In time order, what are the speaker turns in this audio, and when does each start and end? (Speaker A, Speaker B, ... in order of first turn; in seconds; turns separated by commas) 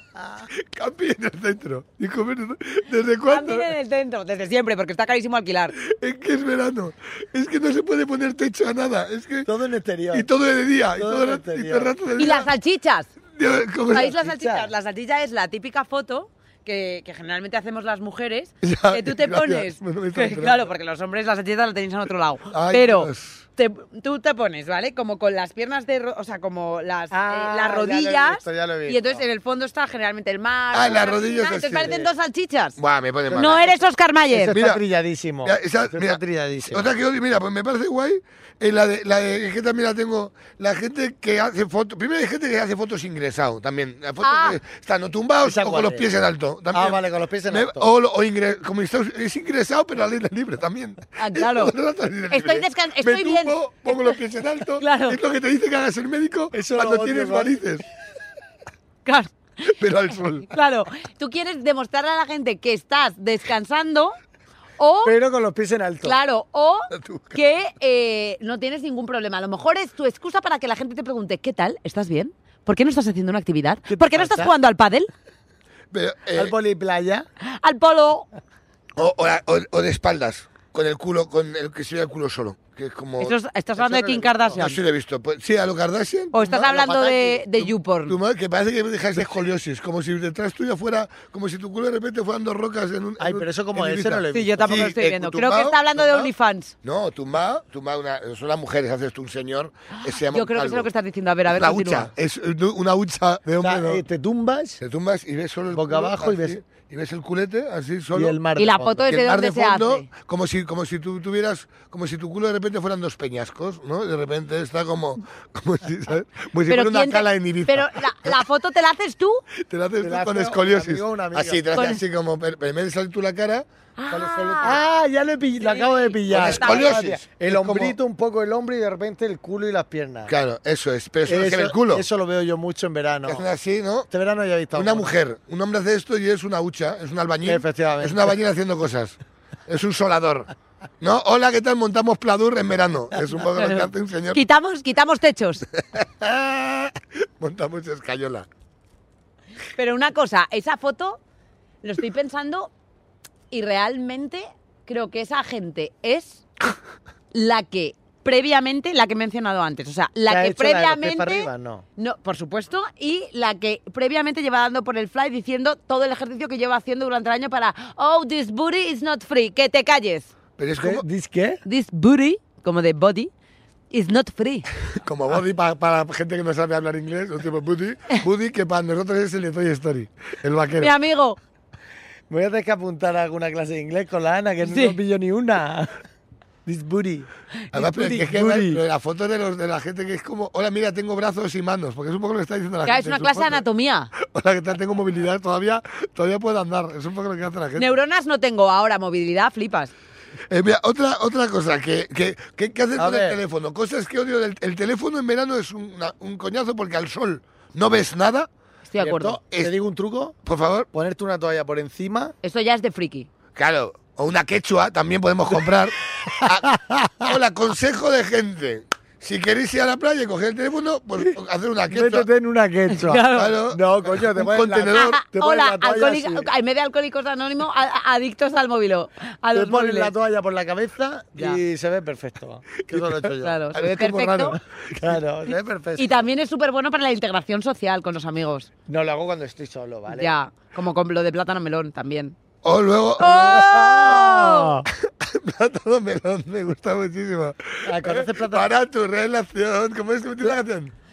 Speaker A: 0.6-3.7, Speaker B: 3.3-5.7, Speaker A: 5.8-9.5, Speaker C: 9.4-10.3, Speaker A: 10.1-12.5, Speaker C: 10.9-11.9, Speaker B: 12.2-13.1, Speaker A: 13.3-14.2, Speaker B: 13.9-32.8, Speaker C: 13.9-14.7, Speaker A: 18.6-20.6, Speaker A: 22.5-23.4, Speaker C: 27.1-29.2, Speaker A: 30.7-32.0, Speaker C: 31.8-32.1, Speaker A: 32.8-33.7, Speaker B: 33.3-34.6, Speaker C: 34.3-36.9, Speaker A: 34.5-34.8, Speaker A: 35.4-47.0, Speaker B: 44.2-44.6, Speaker C: 45.4-46.1, Speaker C: 46.7-47.9, Speaker A: 47.5-57.8, Speaker B: 51.2-51.7, Speaker B: 52.3-54.1, Speaker B: 54.8-55.2, Speaker C: 56.5-57.6, Speaker B: 59.0-59.7, Speaker A: 59.7-60.5, Speaker B: 60.5-64.2, Speaker B: 64.8-65.1, Speaker C: 65.0-66.2, Speaker B: 66.0-75.1, Speaker A: 66.9-67.4, Speaker C: 73.9-74.5, Speaker A: 75.9-76.5, Speaker C: 76.3-77.2, Speaker B: 77.4-78.3, Speaker A: 79.0-86.7, Speaker B: 83.2-84.8, Speaker B: 86.3-88.2, Speaker C: 86.5-87.4, Speaker A: 87.6-96.3, Speaker C: 89.1-89.4, Speaker C: 93.2-94.9, Speaker B: 94.3-96.7, Speaker A: 96.8-100.9, Speaker B: 100.1-102.1, Speaker A: 101.5-104.0, Speaker C: 103.6-104.8, Speaker A: 104.8-108.4, Speaker C: 105.7-106.6, Speaker C: 108.1-109.1, Speaker B: 108.5-110.1, Speaker A: 109.1-118.4, Speaker B: 116.7-119.4, Speaker A: 119.7-124.8, Speaker C: 120.0-121.7, Speaker B: 121.7-122.0, Speaker B: 124.0-124.8, Speaker C: 124.6-130.3, Speaker B: 125.6-127.0, Speaker A: 126.3-127.9, Speaker A: 130.3-132.0, Speaker C: 131.2-133.4, Speaker A: 133.3-134.1, Speaker C: 134.1-135.1, Speaker A: 134.7-144.4, Speaker C: 137.4-138.3, Speaker B: 143.6-145.6, Speaker A: 145.9-148.5, Speaker B: 149.7-151.2, Speaker B: 151.8-152.7, Speaker B: 153.5-156.4, Speaker B: 157.3-170.3, Speaker C: 160.3-161.8, Speaker A: 170.6-171.0, Speaker C: 170.8-171.6, Speaker B: 171.6-173.3, Speaker B: 173.9-174.7, Speaker A: 175.0-180.9, Speaker B: 180.8-181.4, Speaker C: 182.3-186.0, Speaker B: 184.6-184.9, Speaker C: 186.7-188.8, Speaker A: 187.7-193.6, Speaker B: 192.8-194.1, Speaker A: 194.2-197.9, Speaker B: 197.8-199.9, Speaker A: 200.5-208.5, Speaker C: 202.9-203.4, Speaker B: 208.9-209.4, Speaker C: 209.0-210.3, Speaker A: 210.4-210.9, Speaker C: 210.9-212.3, Speaker B: 212.4-213.3, Speaker A: 213.6-222.2, Speaker C: 216.2-217.3, Speaker C: 221.9-226.5, Speaker B: 222.9-223.6, Speaker A: 223.3-225.2, Speaker B: 224.9-230.1, Speaker C: 229.5-233.6, Speaker A: 232.9-234.6, Speaker B: 233.4-234.6, Speaker C: 234.9-236.2, Speaker B: 236.0-238.7, Speaker C: 238.9-240.3, Speaker B: 240.1-242.3, Speaker A: 242.6-244.4, Speaker B: 243.2-244.8, Speaker C: 243.5-244.9, Speaker A: 245.1-250.9, Speaker C: 247.8-248.7